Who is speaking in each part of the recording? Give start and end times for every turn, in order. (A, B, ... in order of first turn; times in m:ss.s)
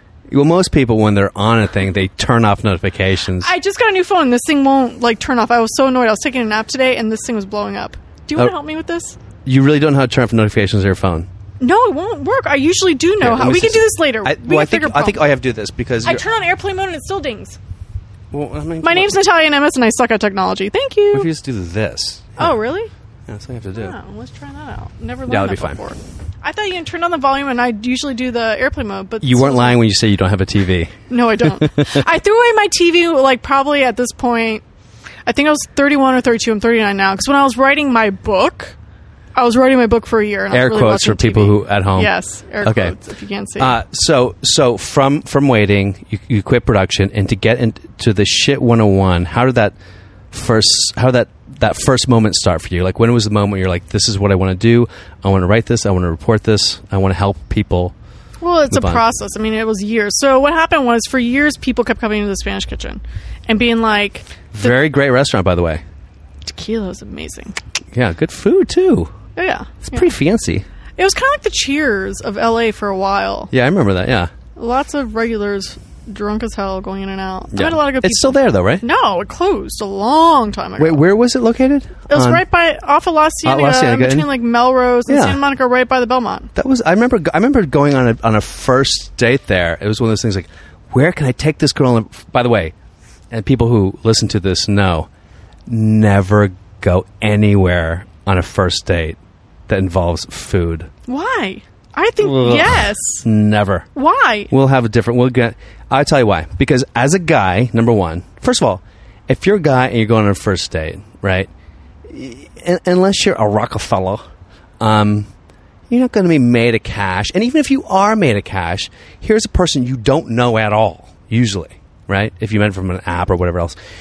0:00.3-0:03.5 A
0:03.4-0:09.2 B
0:09.4-0:11.3 A
0:11.6-0:15.2 B
0:13.2-0:16.2 A
0:16.0-0:17.6 B
0:18.3-0:19.2 A
0:18.8-0:21.3 B
0:21.1-0:22.5 A
0:22.4-0:22.9 B
0:23.3-0:23.9 A
0:23.7-0:29.8 B
0:25.3-0:25.8 A
0:29.2-0:32.0 A
0:31.1-0:34.6 B
0:35.2-0:38.8 B
0:39.3-0:43.8 B
0:40.5-0:42.9 A
0:43.6-0:49.7 A
0:50.3-0:57.9 A
0:58.4-1:04.7 B
0:58.7-0:59.0 A
1:04.5-1:05.8 A
1:06.4-1:07.6 B
1:07.9-1:09.1 A
1:09.4-1:10.1 B
1:09.8-1:10.6 A
1:11.0-1:13.5 B
1:13.5-1:14.3 A
1:14.6-1:21.0 B
1:17.5-1:18.8 A
1:20.8-1:22.4 A
1:22.1-1:26.5 B
1:23.4-1:24.3 A
1:25.1-1:25.4 A
1:26.5-1:32.7 A
1:33.3-1:35.1 A
1:35.7-1:40.9 A
1:41.1-1:43.2 B
1:42.2-1:43.9 A
1:43.9-1:44.5 B
1:44.5-1:51.5 A
1:52.1-1:54.2 A
1:54.8-1:55.3 A
1:55.9-2:03.8 A